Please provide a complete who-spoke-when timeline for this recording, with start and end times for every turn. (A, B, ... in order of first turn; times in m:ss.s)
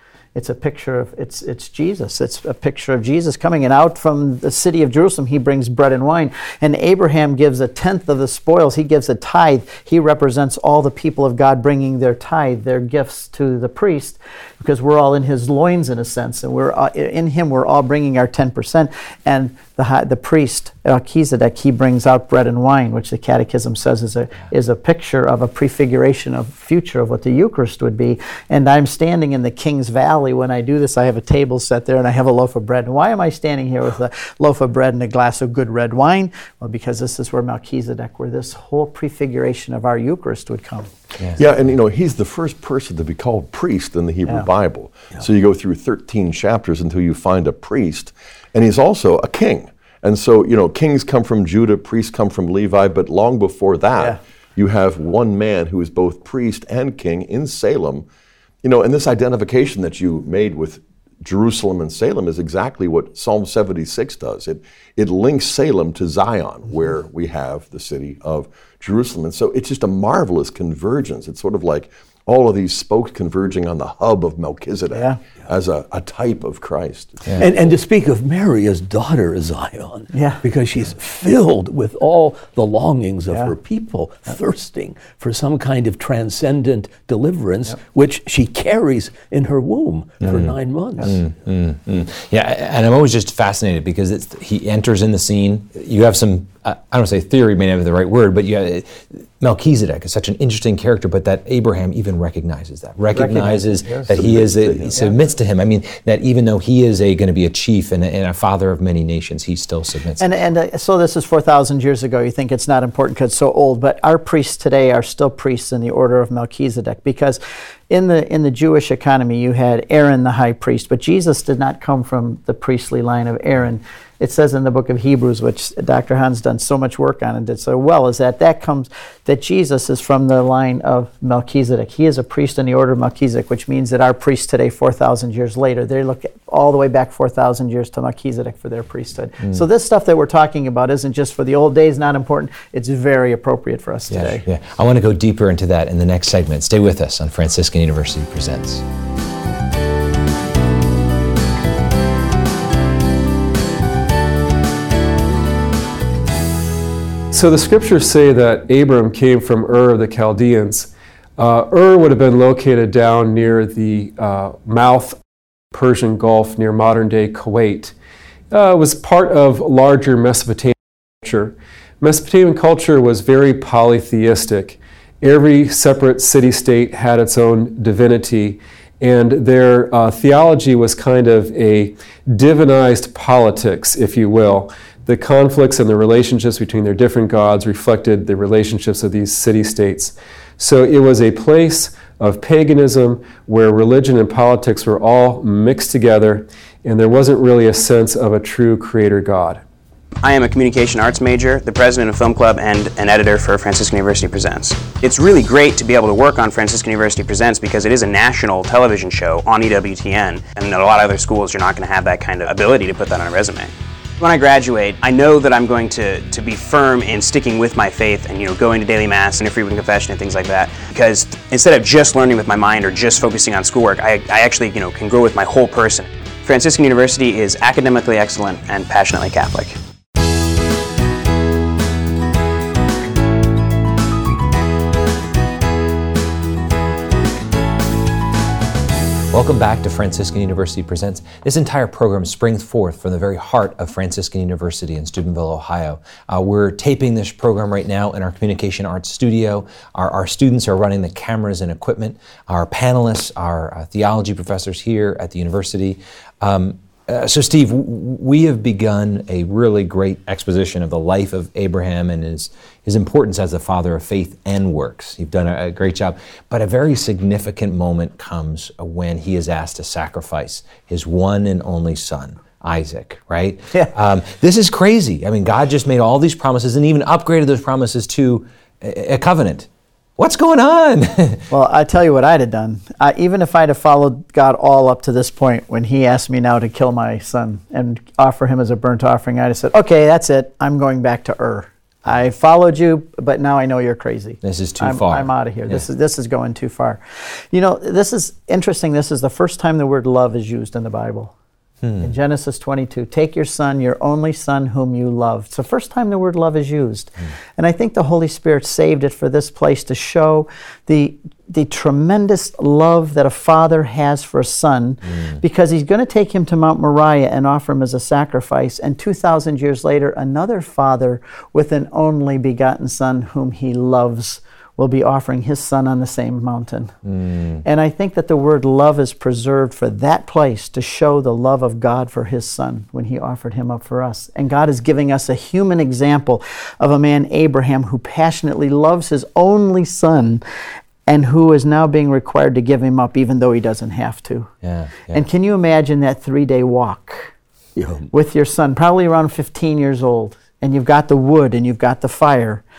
0:00.3-0:40.9 A
0:41.3-0:58.0 B
0:58.6-1:17.2 B
1:14.9-1:15.2 A
1:17.4-1:31.2 C
1:20.1-1:20.4 A
1:30.2-1:50.3 D
1:43.1-1:44.1 A
1:44.1-1:44.9 B
1:50.2-2:24.4 A
2:24.1-2:28.8 D
2:37.3-2:45.2 E
2:45.7-2:47.9 E
2:48.5-3:19.6 E
3:20.2-3:49.8 F
3:59.3-4:41.4 D
4:41.5-5:01.3 A
4:54.4-4:55.8 D
5:01.8-5:02.1 D
5:02.0-5:27.0 A
5:15.1-5:15.4 D
5:27.0-5:27.6 D
5:27.6-5:40.4 A
5:41.1-5:44.5 A
5:44.6-5:45.2 D
5:45.1-5:47.3 A
5:47.8-5:48.1 C
5:48.1-5:52.6 A